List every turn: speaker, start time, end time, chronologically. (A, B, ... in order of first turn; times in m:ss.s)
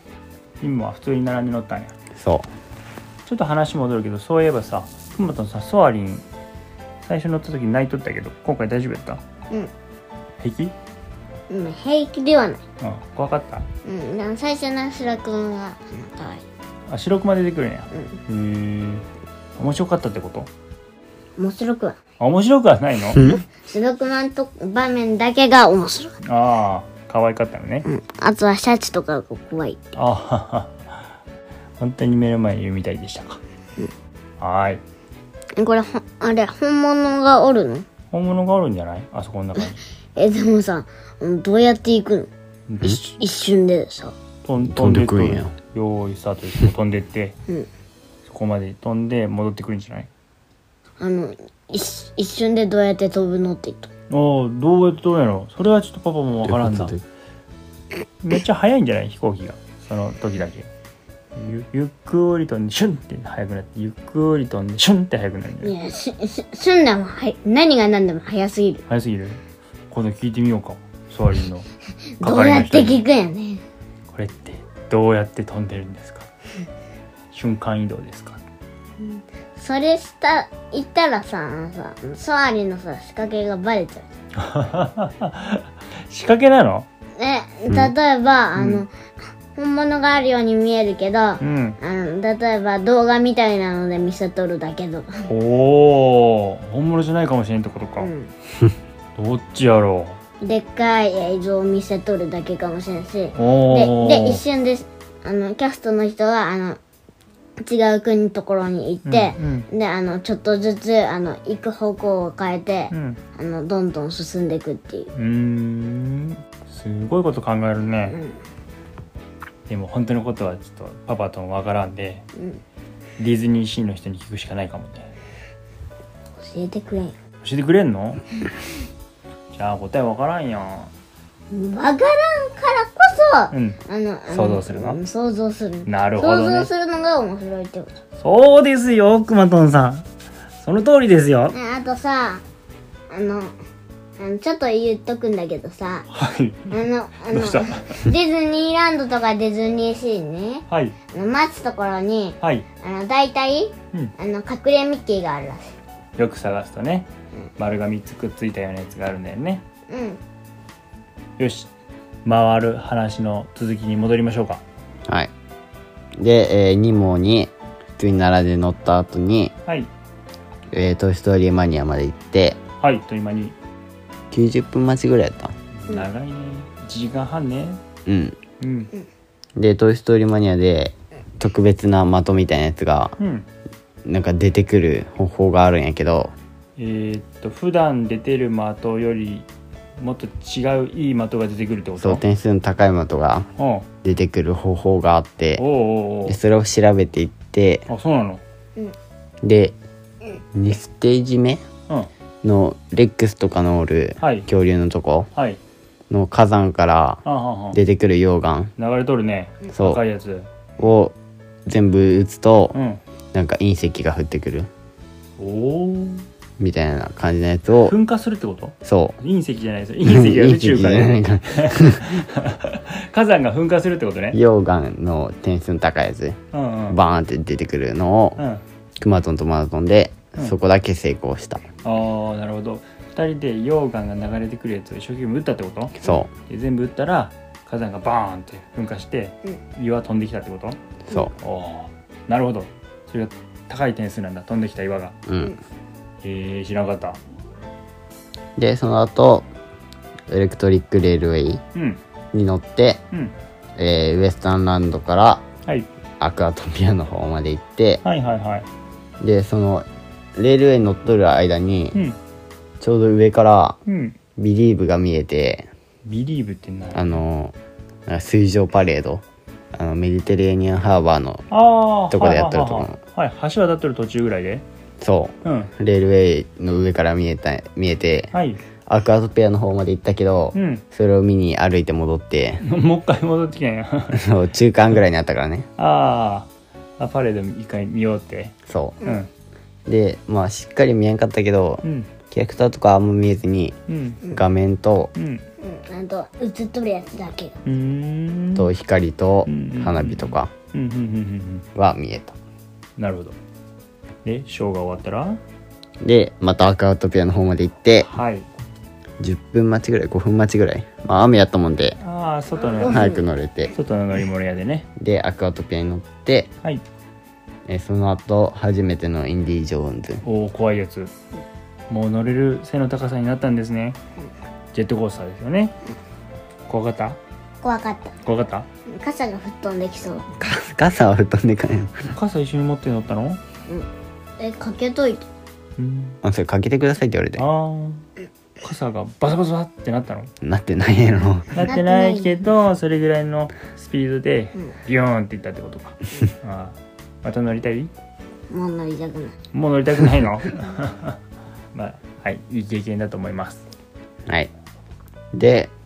0:00.6-0:01.9 A
0:02.2-0:02.5 B
0:03.2-0:06.2 A
0:07.0-0:09.2 A
0:10.4-0:10.7 A
0:11.5-0:12.6 C
0:12.8-0:13.7 A
0:13.8-0:16.4 C
0:16.9-0:19.0 A
0:17.9-0:18.2 C
0:19.6-0:20.5 A
0:21.4-0:22.0 C
0:22.2-0:23.2 A
0:23.2-0:23.4 B
0:23.2-0:26.2 C
0:26.2-0:27.9 A
0:27.9-0:29.8 C
0:30.0-0:31.0 A
0:31.8-0:33.4 A
0:34.4-0:34.8 A
0:35.6-0:37.9 C
0:38.1-0:39.8 A
0:40.2-0:42.3 C
0:42.7-0:43.2 A
0:43.2-0:44.2 C
0:44.4-0:47.4 A
0:44.6-0:45.5 B
0:48.3-0:50.1 A
0:51.0-0:53.9 C
0:54.1-0:57.0 A
0:56.4-0:57.0 B
0:58.2-1:00.7 A
1:01.4-1:05.7 A
1:05.6-1:08.8 C
1:08.9-1:09.4 A
1:09.9-1:11.7 A
1:12.2-1:13.6 C
1:12.2-1:13.0 A
1:14.1-1:16.3 A
1:17.3-1:18.4 A
1:19.0-1:24.0 C
1:24.4-1:26.8 A
1:27.2-1:28.9 C
1:28.6-1:28.8 A
1:29.5-1:35.1 C
1:31.4-1:31.8 A
1:35.3-1:38.1 A
1:38.0-1:38.3 C
1:39.2-1:40.2 A
1:40.4-1:46.8 C
1:43.3-1:44.4 A
1:47.6-1:55.1 C
1:49.1-1:49.7 A
1:52.9-1:53.2 A
1:55.1-1:58.2 A
1:58.1-1:58.4 C
1:59.7-2:02.2 A
2:02.4-2:02.6 C
2:03.2-2:05.1 A
2:06.4-2:07.2 C
2:07.4-2:08.3 A
2:09.5-2:10.9 A
2:11.5-2:17.9 C
2:13.5-2:13.8 A
2:14.3-2:15.0 A
2:15.8-2:16.7 A
2:18.2-2:20.0 A
2:20.6-2:21.6 A
2:21.5-2:22.4 C
2:23.1-2:23.5 C
2:24.2-2:26.1 C
2:26.1-2:28.0 A
2:26.7-2:35.7 C
2:30.7-2:31.0 A
2:32.4-2:32.6 A
2:36.2-2:39.6 A
2:39.9-2:40.2 C
2:41.4-2:41.7 A
2:42.2-2:44.6 A
2:46.2-2:49.5 B
2:50.7-2:52.6 B
2:52.8-2:53.6 A
2:54.3-2:55.5 B
2:55.8-2:57.8 A
2:58.0-2:58.4 B
2:58.6-2:58.9 A
2:59.6-3:03.1 B
3:03.2-3:03.5 A
3:04.0-3:06.3 B
3:06.8-3:09.5 A
3:10.0-3:12.2 A
3:12.0-3:13.5 B
3:13.6-3:13.8 A
3:14.0-3:15.6 B
3:15.6-3:16.4 A
3:16.2-3:17.9 B
3:17.9-3:18.4 A
3:19.4-3:19.7 B
3:20.5-3:21.6 B
3:22.4-3:25.3 B
3:24.2-3:24.5 A
3:26.1-3:28.7 B
3:27.2-3:27.8 A
3:28.8-3:30.5 A
3:29.7-3:30.0 B
3:30.8-3:31.1 B
3:31.7-3:32.7 B
3:32.7-3:33.0 A
3:33.3-3:34.7 B
3:35.4-3:36.2 A
3:36.6-3:37.9 B
3:37.8-3:44.4 A
3:38.8-3:39.2 B
3:40.0-3:42.1 B
3:44.3-3:48.4 B
3:46.5-3:47.0 A
3:48.4-3:48.6 A
3:49.0-3:51.6 B
3:51.8-4:00.8 A
3:56.0-3:56.3 B
4:01.1-4:01.3 B
4:01.4-4:05.2 A
4:05.2-4:05.6 B
4:06.2-4:07.2 A
4:08.6-4:09.5 B
4:10.3-4:11.6 B
4:11.7-4:12.0 A
4:12.3-4:13.0 B
4:13.8-4:15.4 B
4:16.2-4:18.0 B
4:18.0-4:18.7 A
4:19.2-4:22.0 B
4:22.8-4:23.8 B
4:23.9-4:24.2 A
4:24.4-4:25.7 B
4:26.0-4:27.2 A
4:26.9-4:27.5 B
4:28.1-4:29.2 B
4:29.7-4:31.5 B
4:31.5-4:34.6 A
4:32.1-4:33.0 B
4:35.0-4:38.3 B
4:35.4-4:35.7 A
4:38.3-4:38.6 A
4:38.9-4:42.6 B
4:40.5-4:40.8 A
4:42.6-4:44.3 A
4:44.1-4:45.7 B
4:45.8-4:46.5 A
4:47.0-4:49.3 A
4:48.7-4:49.0 B
4:49.9-4:53.8 B
4:51.8-4:52.1 A
4:53.9-4:54.2 A
4:54.3-4:55.1 B
4:55.1-4:55.4 A
4:55.6-4:57.5 C
4:57.6-4:58.7 A
4:58.6-5:00.5 B
4:59.5-5:01.6 A
5:01.7-5:02.4 B
5:03.0-5:03.4 A
5:04.2-5:05.4 A
5:06.0-5:08.1 B
5:08.0-5:08.5 A
5:09.2-5:12.0 B
5:12.0-5:13.2 A
5:12.7-5:13.2 C
5:12.8-5:13.7 B
5:13.7-5:14.9 A
5:15.0-5:16.5 B
5:17.7-5:20.2 B
5:20.2-5:21.1 A
5:21.9-5:24.0 A
5:24.7-5:25.8 A
5:26.7-5:27.2 A
5:27.6-5:28.2 C
5:28.2-5:28.7 A
5:28.9-5:30.3 C
5:30.4-5:32.1 B
5:32.1-5:33.4 A
5:34.4-5:35.2 C
5:35.8-5:36.2 A
5:36.2-5:37.4 B
5:37.4-5:38.0 A
5:38.6-5:40.3 A
5:40.4-5:41.6 B
5:41.5-5:47.9 A
5:41.6-5:42.4 C
5:48.5-5:49.3 C
5:49.5-5:51.2 A
5:51.7-5:53.6 A
5:55.3-5:55.7 B